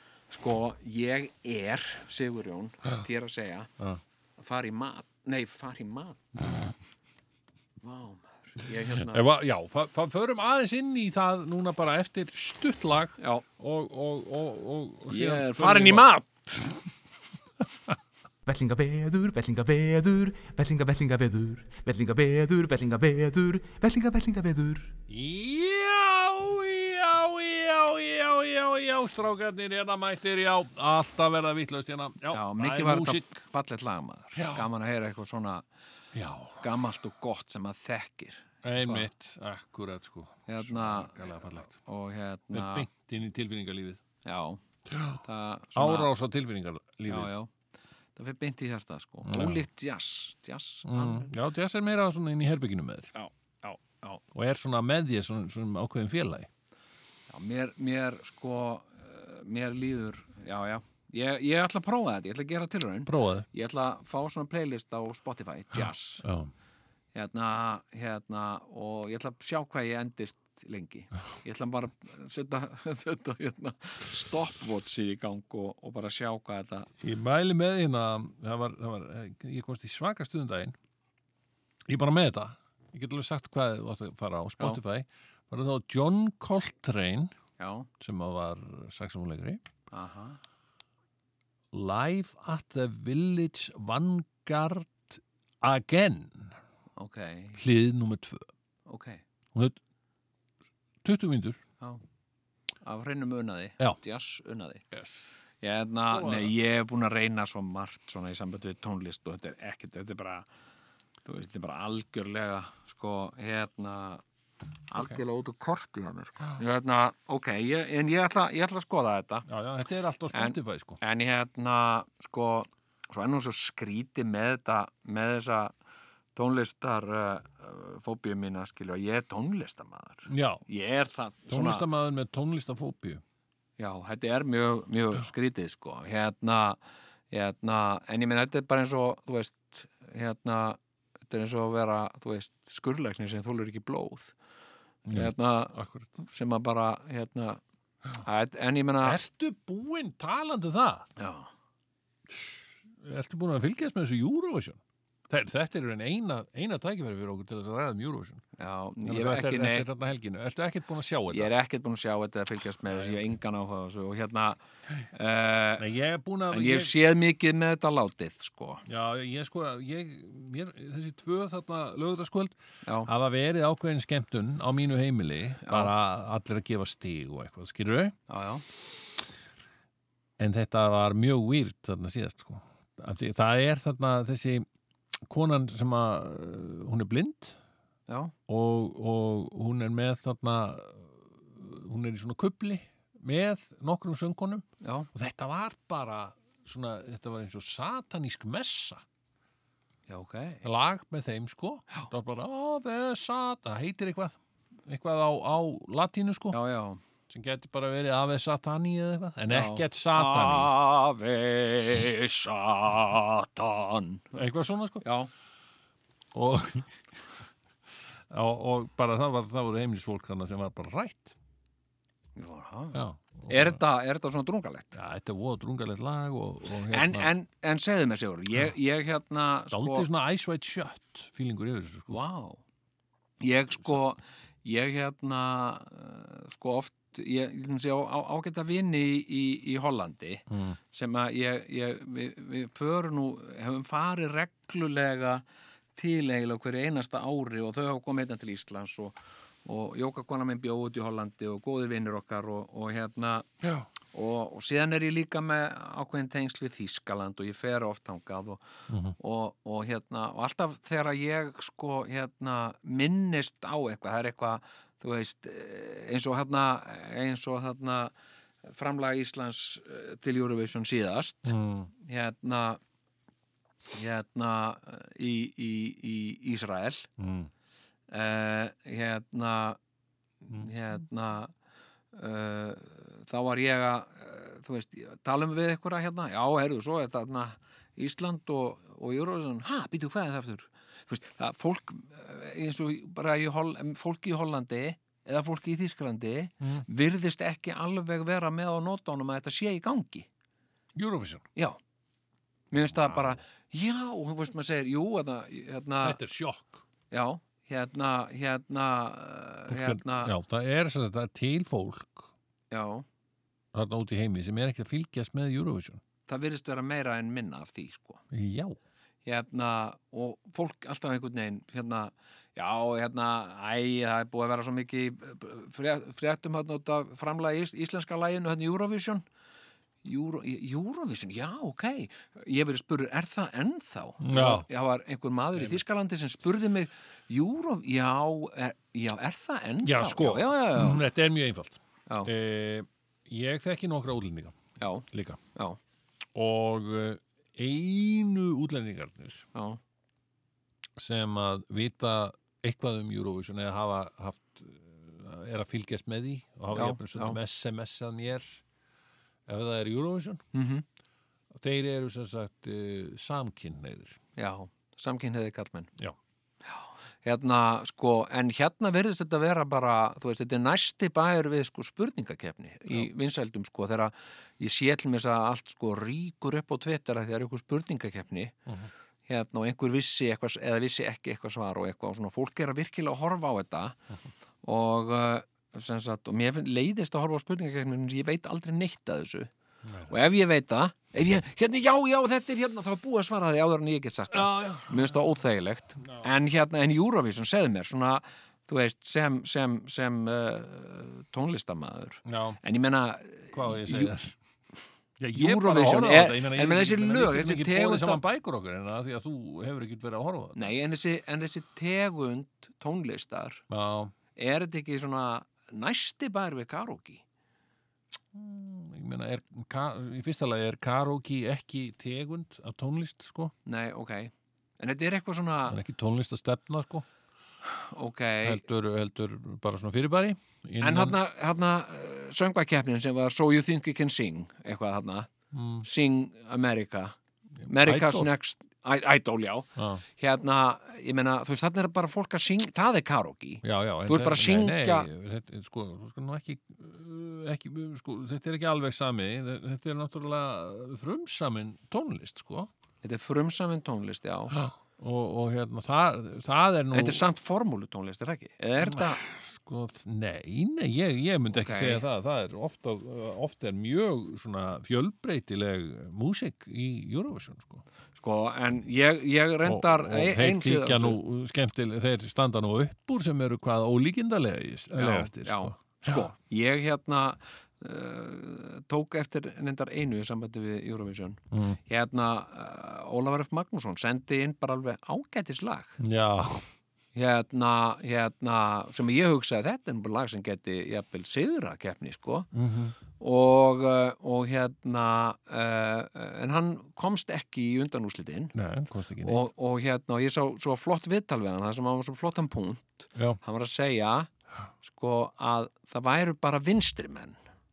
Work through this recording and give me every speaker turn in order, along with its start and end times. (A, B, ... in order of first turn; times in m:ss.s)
0:00.3-0:03.7 A
0:04.4-0:06.2 A
0:07.8-0:09.3 A
0:09.0-0:16.0 B
0:13.2-0:13.4 A
0:15.1-0:16.8 A
0:18.4-0:24.9 C
0:25.1-0:33.3 B
0:32.3-0:35.6 A
0:34.3-0:34.7 B
0:36.1-0:36.7 B
0:36.6-0:39.1 A
0:38.6-0:41.7 B
0:40.5-0:42.9 A
0:42.5-0:44.0 B
0:44.2-0:44.6 A
0:44.9-0:45.2 B
0:45.2-0:46.1 A
0:45.7-0:47.3 B
0:47.1-0:47.5 A
0:48.2-0:51.3 A
0:49.2-0:49.6 B
0:50.8-0:53.1 B
0:53.1-0:54.2 A
0:54.3-0:56.5 B
0:57.3-1:06.2 A
1:03.0-1:03.4 B
1:05.8-1:06.5 B
1:07.1-1:16.9 A
1:17.0-1:20.8 B
1:21.9-1:27.3 B
1:27.6-1:27.9 A
1:28.0-1:29.6 B
1:29.9-1:30.4 A
1:31.7-1:36.5 B
1:37.0-1:37.6 A
1:37.6-1:38.5 B
1:38.9-1:39.2 A
1:41.0-1:41.6 B
1:42.8-1:44.8 A
1:44.9-1:45.2 B
1:45.6-1:50.5 A
1:46.1-1:46.5 B
1:51.2-1:54.2 A
1:54.9-1:59.4 A
1:54.9-1:55.2 B
1:59.5-2:01.0 B
2:00.3-2:05.7 A
2:06.3-2:11.8 A
2:10.3-2:10.6 B
2:11.5-2:13.2 B
2:13.8-2:16.8 A
2:17.3-2:24.3 A
2:25.0-2:26.1 B
2:25.1-2:27.6 A
2:28.2-2:29.2 A
2:29.0-2:31.1 B
2:31.2-2:31.5 A
2:32.3-2:38.4 B
2:38.6-2:40.1 A
2:39.0-2:41.5 B
2:41.3-2:44.6 A
2:42.9-2:43.2 B
2:45.1-2:45.8 A
2:45.8-2:46.9 B
2:46.5-2:48.8 A
2:48.8-2:58.2 B
2:55.6-2:55.9 A
2:58.3-2:58.6 A
3:00.4-3:04.7 B
3:05.3-3:07.6 B
3:08.1-3:08.3 A
3:08.5-3:19.0 B
3:14.8-3:15.1 A
3:20.1-3:20.6 A
3:20.6-3:26.6 B
3:26.5-3:27.0 A
3:27.3-3:30.8 B
3:29.5-3:34.4 A
3:34.3-3:35.0 B
3:35.0-3:35.3 A
3:36.3-3:37.0 B
3:38.3-3:41.4 B
3:42.4-3:44.9 A
3:42.9-3:43.8 B
3:44.9-3:47.3 B
3:46.9-3:50.1 A
3:49.7-3:52.2 B
3:52.1-3:52.6 A
3:53.4-4:05.4 A
4:00.5-4:00.8 B
4:05.9-4:13.5 A
4:13.6-4:13.9 B
4:14.1-4:18.6 A
4:18.9-4:19.2 B
4:19.2-4:28.1 A
4:28.6-4:32.8 A
4:31.4-4:31.9 B
4:33.9-4:37.1 A
4:37.2-4:37.5 B
4:38.1-4:39.8 A
4:40.5-4:41.5 A
4:42.1-5:00.3 A
5:00.9-5:01.4 B
5:02.7-5:06.2 A
5:02.9-5:03.4 B
5:06.0-5:06.8 B
5:07.1-5:10.3 A
5:09.7-5:12.3 B
5:12.7-5:13.0 A
5:13.7-5:16.0 B
5:16.3-5:18.2 A
5:18.3-5:18.8 B
5:19.2-5:29.2 A
5:30.0-5:41.0 A
5:34.2-5:34.7 B
5:35.6-5:35.8 B
5:39.8-5:44.6 B
5:44.8-5:45.8 A
5:45.1-5:45.4 B
5:46.3-5:49.4 B
5:51.0-5:58.6 B
5:56.7-5:57.4 A
5:59.5-6:00.4 B
6:00.5-6:00.8 A
6:01.5-6:04.2 B
6:04.4-6:05.9 A
6:06.6-6:18.6 A
6:19.3-6:24.0 A
6:24.6-6:29.5 A
6:29.8-6:30.2 B
6:30.1-6:44.1 A
6:34.3-6:35.2 B
6:36.0-6:36.3 B
6:42.2-6:42.6 B
6:43.5-6:44.4 B
6:45.2-6:50.7 B
6:45.3-6:48.2 A
6:50.5-6:53.6 A
6:53.7-6:54.1 B
6:54.4-6:57.2 A
6:58.3-7:03.5 B
7:03.6-7:05.8 A
7:05.7-7:07.0 B
7:07.7-7:08.6 A
7:08.4-7:11.2 B
7:10.8-7:15.3 A
7:15.5-7:15.8 B
7:15.8-7:25.1 A
7:17.6-7:18.3 B
7:19.8-7:20.0 B
7:23.6-7:32.7 B
7:33.0-7:34.6 A
7:34.5-7:37.2 B
7:36.9-7:39.2 A
7:38.8-7:47.8 B
7:41.5-7:42.0 A
7:48.2-7:51.2 A
7:49.6-7:56.3 B
7:55.0-8:06.0 A
8:01.5-8:01.8 B
8:06.0-8:06.7 B
8:07.1-8:12.5 A
8:12.5-8:13.0 B
8:13.2-8:18.5 A
8:18.5-8:19.4 B
8:19.2-8:24.3 A
8:24.8-8:27.4 A